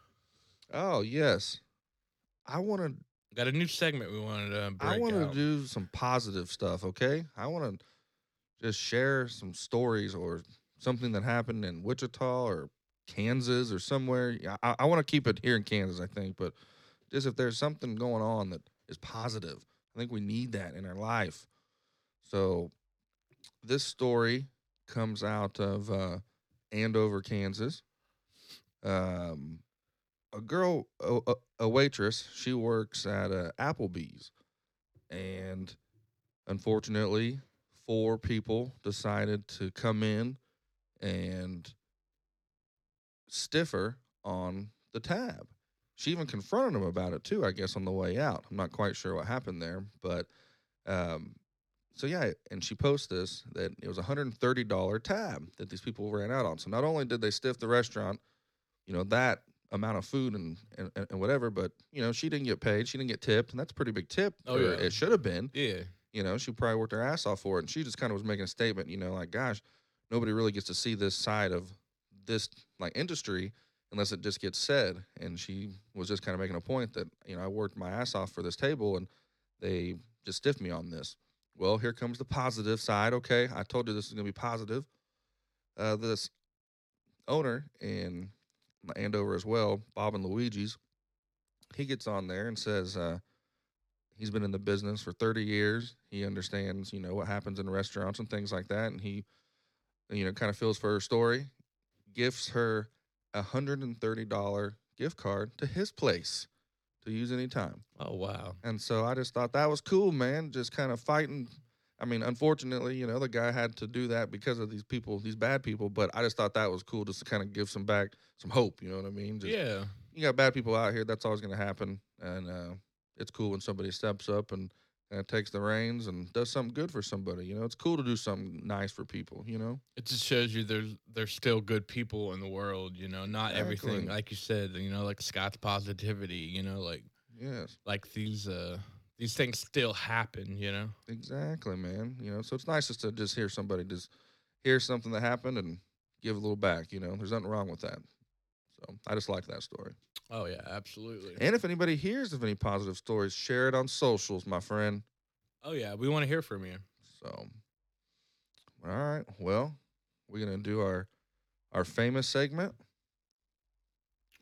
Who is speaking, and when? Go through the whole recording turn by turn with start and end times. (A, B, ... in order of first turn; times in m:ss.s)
0:00.7-0:01.6 A
0:02.5-0:03.0 A
0:03.3-0:05.4 B
0:04.8-0:07.8 A
0:08.6-0:16.6 A
0:17.1-0:21.5 A
0:22.2-0:22.7 A
0:23.6-0:27.8 A
0:28.8-0:29.6 A
0:30.3-0:34.3 A
0:35.1-0:35.8 A
0:36.5-0:40.4 A
0:41.0-0:41.8 A
0:43.3-0:50.3 A
0:50.9-0:51.4 A
0:51.9-0:58.2 A
0:58.9-1:05.5 A
1:04.5-1:05.0 B
1:05.5-1:05.9 B
1:06.1-1:24.9 A
1:25.8-1:26.3 A
1:27.3-1:30.8 A
1:31.7-1:33.2 A
1:34.2-1:39.3 A
1:40.1-1:41.5 A
1:42.1-1:46.5 A
1:47.0-1:47.8 A
1:48.0-1:48.6 B
1:48.6-1:59.6 A
1:59.4-2:00.0 B
2:00.1-2:09.8 A
2:10.0-2:17.1 B
2:13.5-2:14.2 A
2:17.3-2:17.8 A
2:17.8-2:21.0 B
2:21.1-2:24.1 A
2:24.6-2:28.1 A
2:28.8-2:30.0 A
2:30.3-2:31.4 B
2:31.4-2:35.0 A
2:35.6-2:36.9 B
2:37.1-2:37.5 A
2:38.8-2:39.8 A
2:40.3-2:41.1 A
2:41.7-2:42.7 A